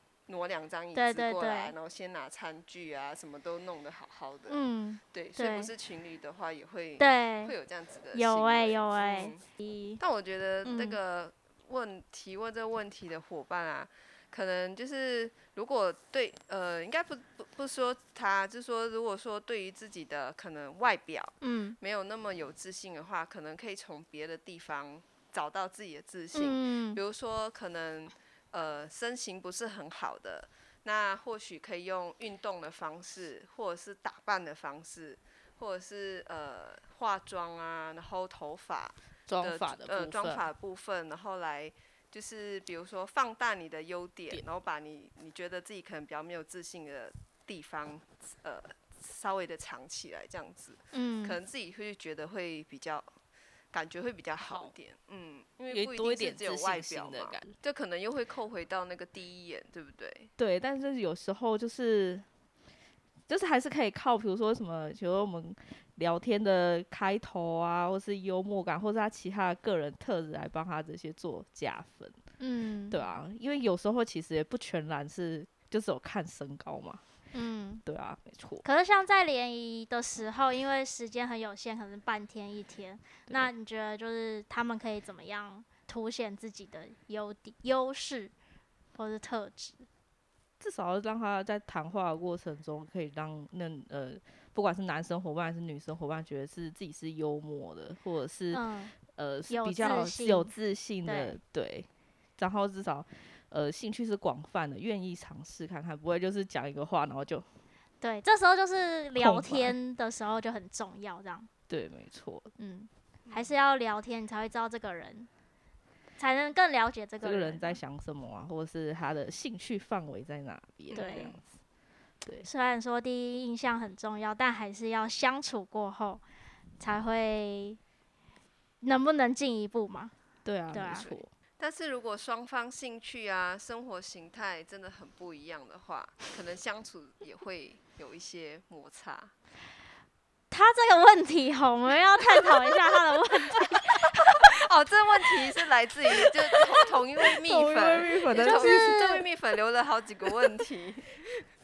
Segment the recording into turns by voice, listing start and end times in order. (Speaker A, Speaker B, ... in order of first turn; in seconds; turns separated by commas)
Speaker A: 0.3-4.6, Speaker B: 0.9-1.7, Speaker B: 4.5-5.7, Speaker A: 5.1-9.4, Speaker B: 7.0-7.5, Speaker B: 8.1-10.0, Speaker A: 10.0-53.1, Speaker B: 10.7-11.0, Speaker B: 21.4-21.8, Speaker B: 26.3-27.0, Speaker C: 39.3-40.4, Speaker B: 50.9-51.4, Speaker A: 53.7-60.3, Speaker C: 54.4-54.7, Speaker C: 55.7-57.5, Speaker C: 60.4-62.3, Speaker C: 63.3-72.2, Speaker B: 72.4-73.0, Speaker C: 72.9-77.0, Speaker B: 77.3-77.8, Speaker C: 77.8-78.6, Speaker B: 78.6-88.3, Speaker B: 89.0-89.9, Speaker C: 90.6-107.5, Speaker B: 98.5-99.0, Speaker B: 99.5-100.5, Speaker B: 101.0-101.3, Speaker B: 108.0-111.5, Speaker C: 109.2-109.8, Speaker C: 111.7-112.5, Speaker B: 112.6-115.3, Speaker A: 113.3-113.5, Speaker B: 116.2-117.8, Speaker C: 117.2-121.4, Speaker A: 120.9-121.4, Speaker B: 120.9-121.3, Speaker B: 122.4-126.2, Speaker B: 126.8-127.8, Speaker B: 128.8-130.1, Speaker C: 130.4-131.3, Speaker B: 130.7-131.1, Speaker A: 130.9-139.3, Speaker B: 140.5-144.5, Speaker A: 144.4-151.4, Speaker C: 147.4-149.0, Speaker B: 148.4-149.2